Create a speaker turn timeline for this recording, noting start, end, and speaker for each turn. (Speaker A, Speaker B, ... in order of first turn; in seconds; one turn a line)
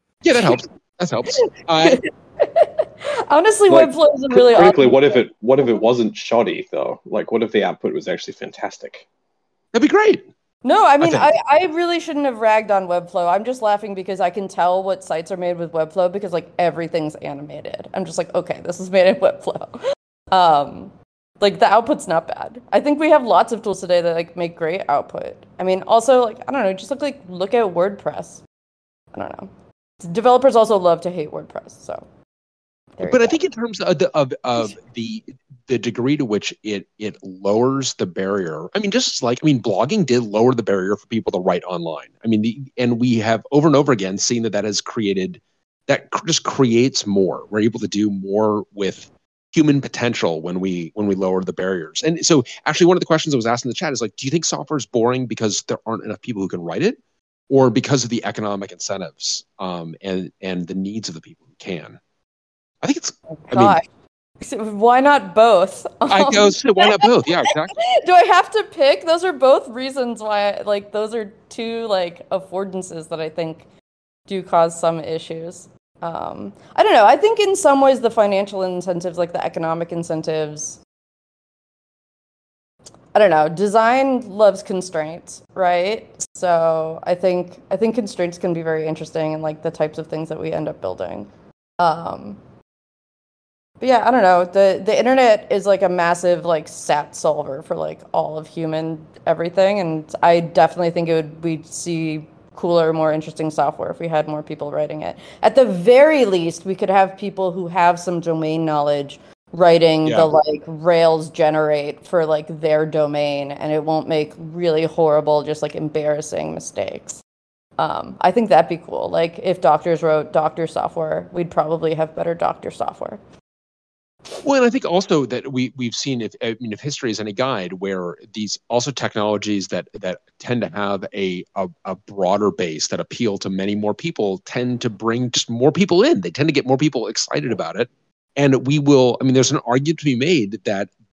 Speaker A: 0.2-2.0
Speaker B: 0.3-0.6
Speaker B: 1.4-5.2
Speaker C: 4.5-9.0
Speaker A: 9.7-10.2
Speaker B: 10.6-19.8
Speaker A: 11.0-11.3
Speaker B: 20.3-28.4
Speaker B: 29.1-29.5
Speaker B: 30.0-32.0
Speaker B: 33.0-33.4
Speaker A: 33.0-57.0
Speaker A: 57.5-62.0
Speaker A: 62.8-63.8
Speaker B: 63.3-63.8
Speaker B: 64.4-73.7
Speaker A: 66.1-67.7
Speaker B: 74.3-80.8
Speaker B: 83.1-91.3
Speaker B: 91.8-92.4
Speaker B: 93.8-117.2
Speaker A: 110.0-110.3
Speaker B: 117.8-123.2
Speaker A: 124.4-140.9